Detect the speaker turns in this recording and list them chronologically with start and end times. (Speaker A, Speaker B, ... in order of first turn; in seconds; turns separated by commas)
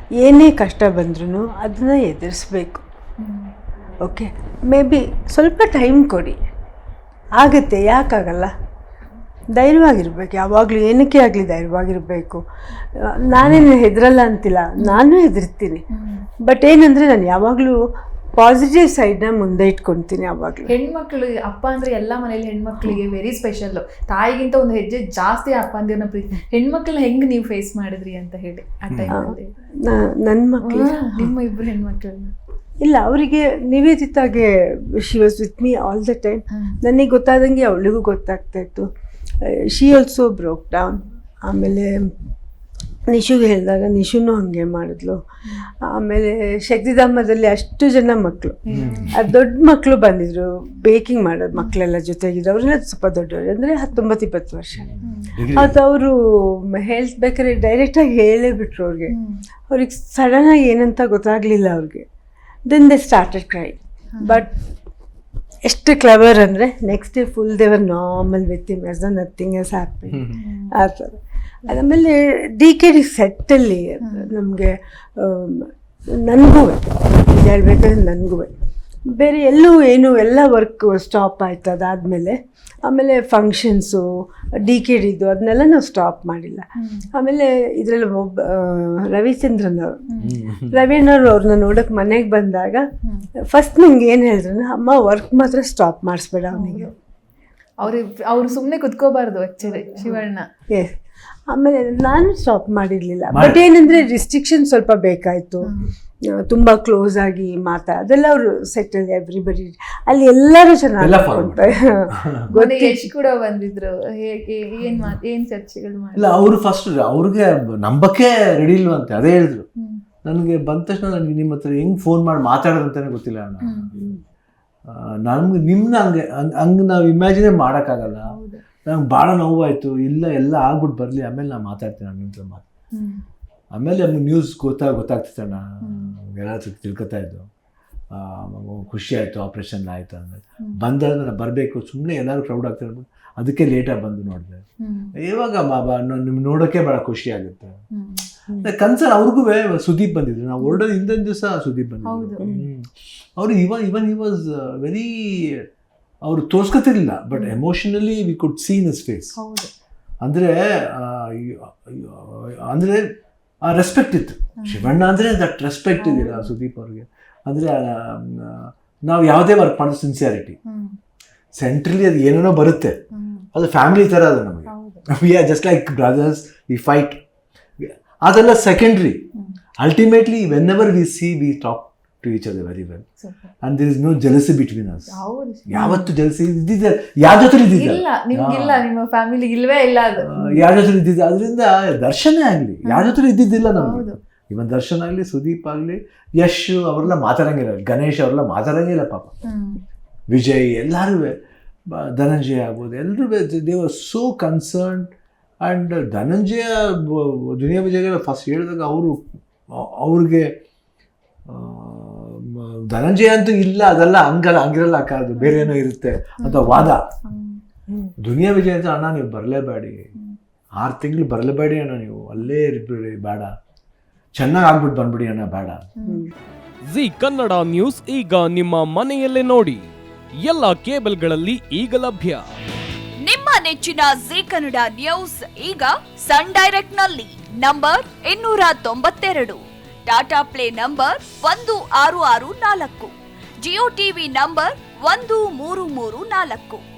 Speaker A: 0.2-2.8, Speaker B: 3.2-3.5, Speaker A: 4.0-6.4, Speaker A: 7.3-8.5, Speaker A: 9.5-12.4, Speaker A: 12.9-15.8, Speaker B: 15.9-16.2, Speaker A: 16.4-17.8, Speaker A: 18.4-20.7, Speaker B: 20.7-29.5, Speaker C: 28.9-29.2, Speaker A: 29.1-31.3, Speaker B: 30.6-32.3, Speaker A: 32.8-38.9, Speaker B: 36.5-36.8, Speaker A: 39.4-42.1, Speaker A: 43.1-45.2, Speaker B: 45.4-45.7, Speaker A: 45.8-54.9, Speaker B: 48.7-49.2, Speaker C: 48.7-49.3, Speaker C: 54.8-55.8, Speaker B: 55.0-55.4, Speaker A: 55.5-59.1, Speaker B: 59.1-59.4, Speaker A: 59.7-62.0, Speaker A: 62.7-64.5, Speaker B: 64.1-64.5, Speaker A: 65.7-78.5, Speaker C: 70.1-70.4, Speaker B: 70.3-70.8, Speaker B: 74.0-74.3, Speaker A: 79.1-84.0, Speaker A: 84.6-90.0, Speaker B: 86.8-87.1, Speaker B: 90.1-90.4, Speaker C: 90.2-90.8, Speaker A: 90.7-92.9, Speaker A: 93.5-96.9, Speaker B: 96.5-96.9, Speaker B: 97.8-100.5, Speaker A: 100.7-101.0, Speaker A: 101.5-105.7, Speaker C: 103.3-103.7, Speaker B: 105.6-105.9, Speaker A: 106.3-113.1, Speaker C: 111.0-112.4, Speaker B: 112.5-116.4, Speaker C: 116.2-119.7, Speaker C: 120.2-123.9, Speaker B: 123.6-124.0, Speaker C: 124.9-128.3, Speaker B: 128.3-128.6, Speaker C: 128.9-132.7, Speaker B: 132.9-133.2, Speaker C: 133.7-137.5, Speaker B: 135.8-136.1, Speaker C: 138.1-144.6, Speaker B: 144.8-145.2, Speaker C: 145.2-147.8, Speaker B: 147.9-148.3, Speaker C: 148.6-155.6, Speaker B: 152.1-152.4, Speaker C: 156.2-159.3, Speaker B: 159.4-159.7, Speaker C: 160.2-163.1, Speaker C: 163.6-170.6, Speaker B: 164.6-164.9, Speaker B: 166.0-166.5, Speaker B: 170.7-171.0, Speaker C: 171.6-173.0, Speaker B: 173.1-173.5, Speaker C: 173.5-177.2, Speaker B: 174.7-175.1, Speaker C: 177.8-179.2, Speaker C: 179.8-183.1, Speaker B: 183.2-183.5, Speaker C: 183.6-185.2, Speaker B: 185.1-186.1, Speaker C: 185.7-188.8, Speaker B: 187.8-190.6, Speaker C: 190.2-199.4, Speaker B: 192.8-193.2, Speaker B: 193.8-194.2, Speaker B: 199.5-199.8, Speaker C: 200.3-201.4, Speaker C: 201.9-205.1, Speaker C: 205.6-210.6, Speaker C: 211.5-217.1, Speaker B: 215.4-215.7, Speaker B: 216.4-217.6, Speaker C: 218.2-220.1, Speaker C: 220.8-223.5, Speaker C: 224.4-225.9, Speaker B: 226.0-226.3, Speaker A: 226.1-226.3, Speaker D: 226.9-229.9, Speaker D: 230.4-232.4, Speaker E: 233.2-243.1, Speaker E: 243.6-246.8